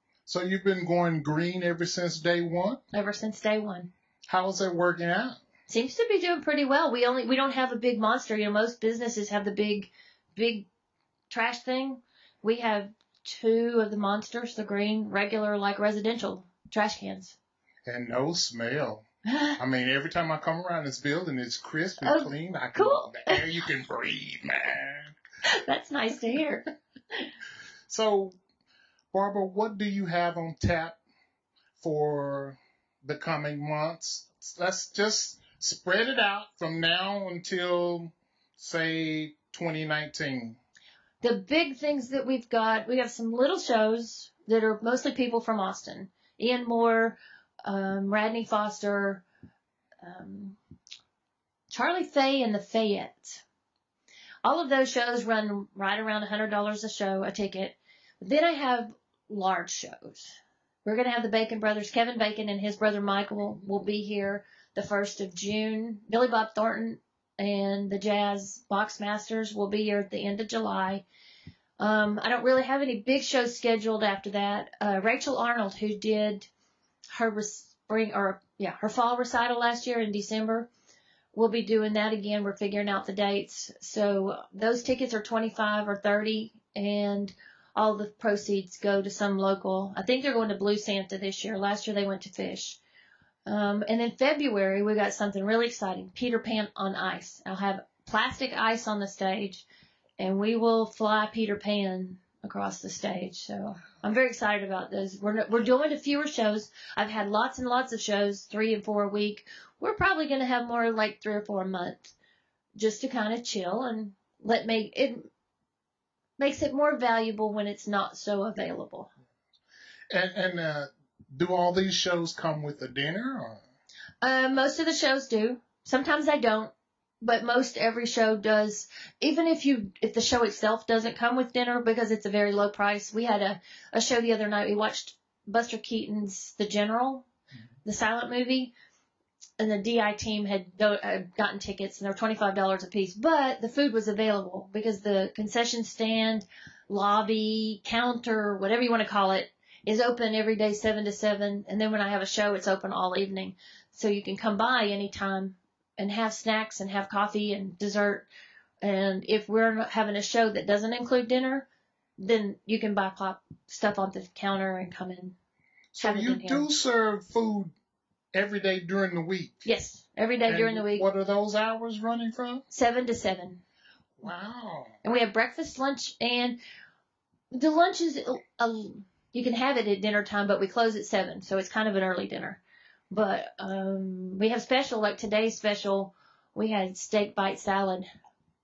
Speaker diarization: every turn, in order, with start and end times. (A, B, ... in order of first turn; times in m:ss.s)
0:00.3-0:02.8 A
0:02.9-0:03.9 B
0:04.3-0:05.4 A
0:05.7-0:10.7 B
0:11.3-0:17.4 B
0:17.9-0:19.0 A
0:19.3-0:19.6 B
0:19.6-0:25.1 A
0:22.0-0:23.4 B
0:25.6-0:26.7 B
0:27.9-0:28.4 A
0:29.1-0:31.0 A
0:31.8-0:40.6 A
0:41.2-0:49.2 B
0:50.0-0:50.6 B
0:51.7-0:53.4 B
0:54.4-1:11.0 B
1:11.8-1:16.5 B
1:17.1-1:20.7 B
1:21.3-1:32.8 B
1:33.5-1:39.7 B
1:40.2-1:52.2 B
1:52.8-1:55.3 B
1:56.4-1:59.1 B
2:00.1-2:03.6 A
2:04.2-2:17.3 B
2:17.8-2:18.7 B
2:19.6-2:38.3 B
2:38.8-2:41.7 B
2:42.2-2:45.4 B
2:45.9-2:47.7 A
2:46.0-2:46.7 B
2:48.3-2:49.6 A
2:49.6-2:51.0 B
2:50.5-2:52.6 A
2:52.7-2:53.6 B
2:54.2-2:55.0 A
2:55.0-2:56.6 B
2:57.5-3:08.1 B